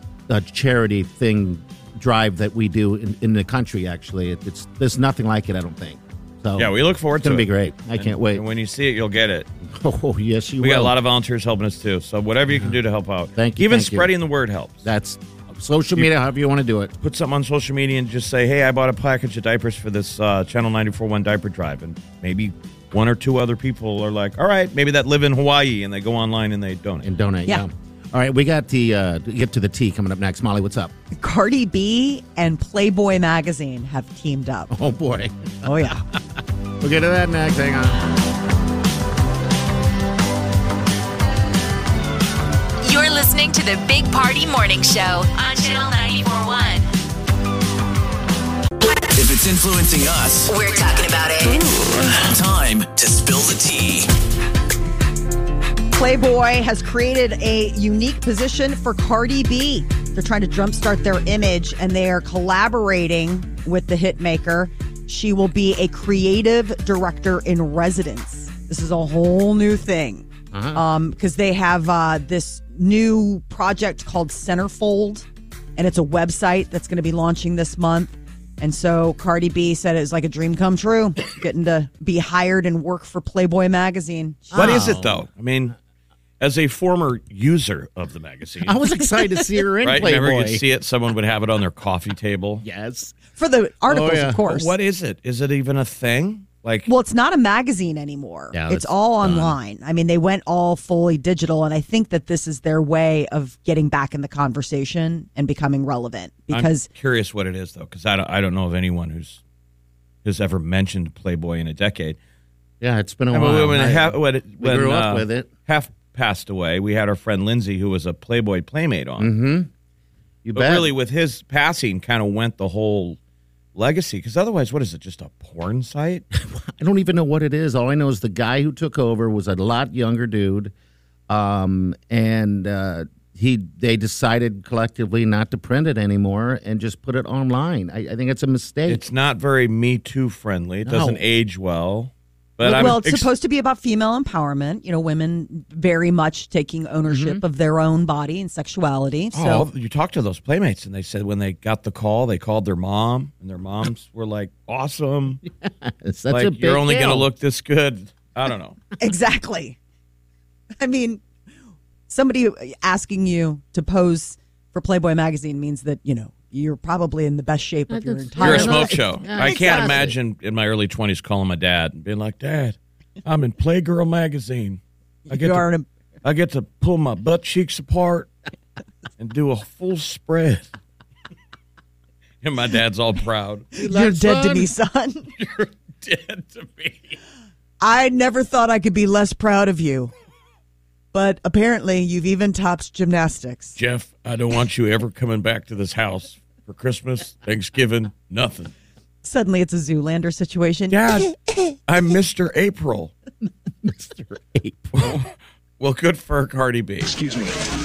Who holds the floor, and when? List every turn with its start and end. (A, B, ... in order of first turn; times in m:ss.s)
0:00.3-0:08.4 A
0:06.6-0:09.5 B
0:09.6-0:11.0 A
0:10.6-0:14.8 B
0:12.5-0:12.8 A
0:13.4-0:14.1 A
0:14.8-0:16.9 A
0:17.0-0:27.1 B
0:27.0-0:30.9 A
0:31.2-0:34.7 C
0:34.7-0:35.9 A
0:35.6-0:36.0 C
0:36.8-0:38.1 A
0:42.8-0:46.9 D
0:49.1-0:50.5 E
0:50.5-0:51.7 D
0:51.9-0:54.1 E
0:55.9-1:15.3 C
1:10.5-1:10.8 A
1:15.8-1:24.8 C
1:24.5-1:25.2 A
1:24.5-1:25.8 B
1:26.4-1:28.8 B
1:28.6-1:30.6 A
1:29.8-1:32.6 B
1:32.6-1:33.2 A
1:33.4-1:34.7 C
1:33.9-1:34.4 A
1:34.3-1:36.9 B
1:36.9-1:46.9 C
1:38.5-1:39.5 A
1:46.5-1:49.4 B
1:50.2-1:52.2 B
1:52.8-1:55.5 A
1:53.3-1:59.3 B
1:59.2-1:59.7 A
2:00.4-2:00.9 A
2:00.5-2:03.2 B
2:03.8-2:06.2 B
2:06.3-2:10.7 A
2:11.3-2:19.0 A
2:18.9-2:23.3 B
2:20.8-2:21.2 A
2:22.6-2:23.0 A
2:22.7-2:29.7 C
2:27.1-2:27.4 A
2:29.3-2:35.4 B
2:35.6-2:37.3 A
2:36.3-2:38.8 B
2:39.0-2:39.8 C
2:40.8-2:41.2 C
2:42.1-2:49.0 C
2:47.9-2:50.2 A
2:48.4-2:55.7 B
2:55.3-2:55.9 C
2:56.2-2:58.3 B
2:59.2-3:00.7 B
3:02.4-3:03.7 B
3:03.8-3:04.7 A
3:03.8-3:05.3 C
3:05.4-3:07.2 B
3:07.8-3:10.1 C
3:11.1-3:13.8 C
3:13.8-3:18.7 B
3:19.2-3:21.1 C
3:20.9-3:21.3 B
3:21.9-3:23.1 B
3:23.8-3:25.2 A
3:24.9-3:25.3 B
3:25.8-3:27.2 B